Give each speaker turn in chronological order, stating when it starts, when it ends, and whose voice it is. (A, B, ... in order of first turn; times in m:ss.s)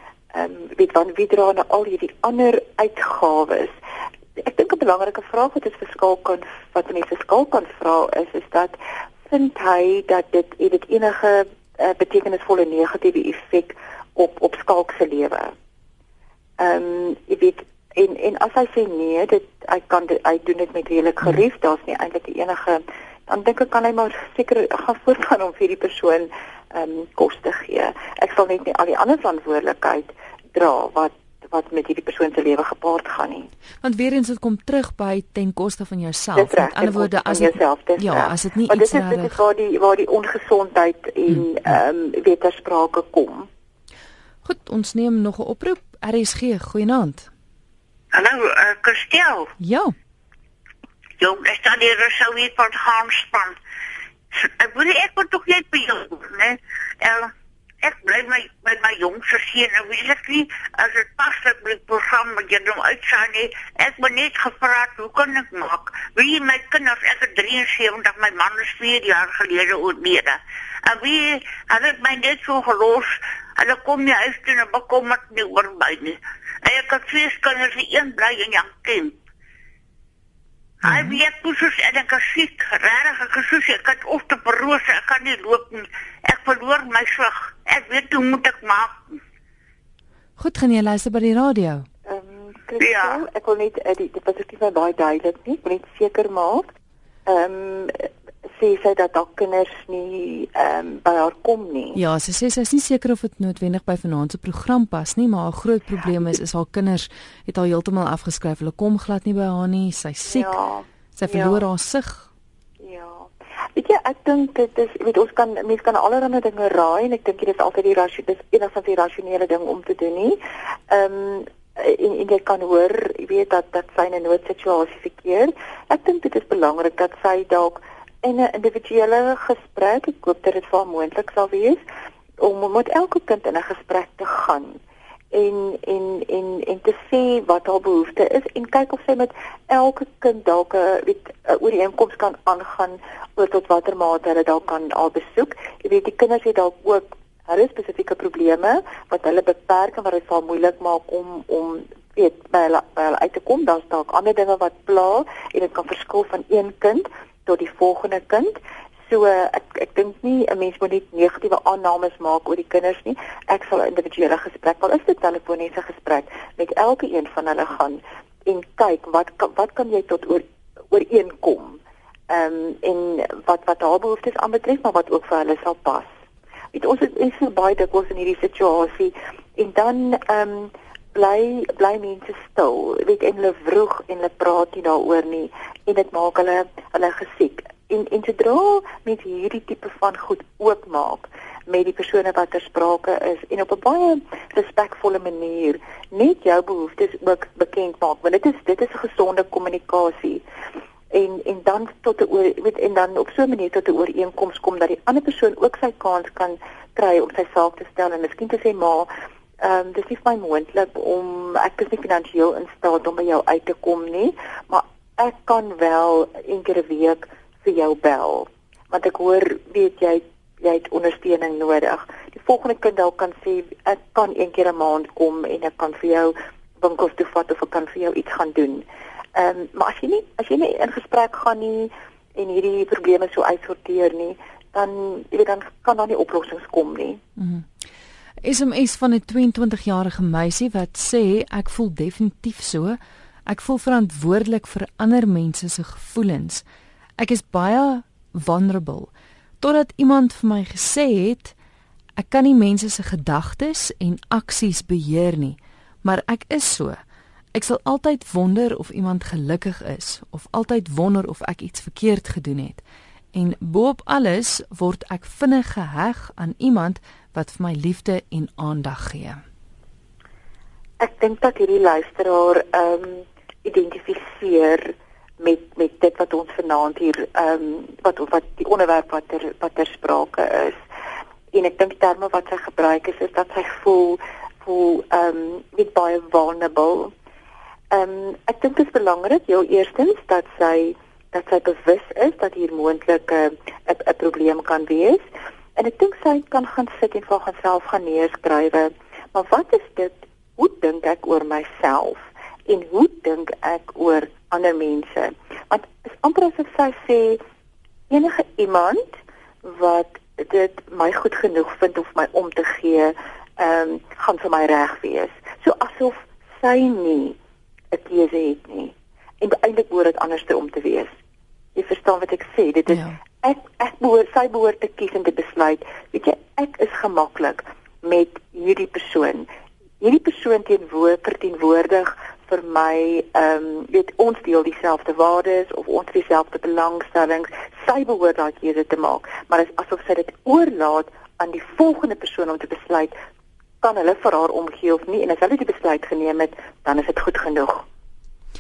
0:00.3-0:03.8 A
0:04.4-0:15.5 A
0:16.6-0:33.5 A
0:33.8-0:39.4 B
0:36.4-0:43.5 A
0:44.4-0:47.3 B
0:48.1-0:49.5 C
0:49.6-0:50.0 B
0:51.2-0:53.6 C
0:54.3-1:19.2 C
1:20.8-1:29.0 C
1:20.8-1:21.2 B
1:30.4-1:31.9 B
1:32.1-1:36.7 A
1:32.8-1:33.2 C
1:37.3-1:42.0 A
1:41.9-1:50.6 B
1:50.3-1:51.6 A
1:51.2-1:52.3 B
1:52.8-2:11.8 A
2:12.4-2:14.8 A
2:15.3-2:56.1 A
2:56.7-3:20.4 A
3:21.1-3:57.2 A
3:57.4-3:57.7 B
3:58.4-4:06.6 B
4:07.2-4:11.5 B
4:12.2-4:17.0 B
4:17.5-4:22.8 B
4:23.3-4:29.4 B
4:31.0-4:40.8 A
4:41.5-4:47.1 A
4:47.9-4:55.2 A
4:55.8-5:07.4 A
5:08.1-5:09.1 A
5:09.6-5:17.4 A
5:17.9-5:21.1 A
5:21.8-5:29.5 A
5:22.9-5:23.2 B
5:30.0-5:43.1 A
5:43.8-5:47.8 A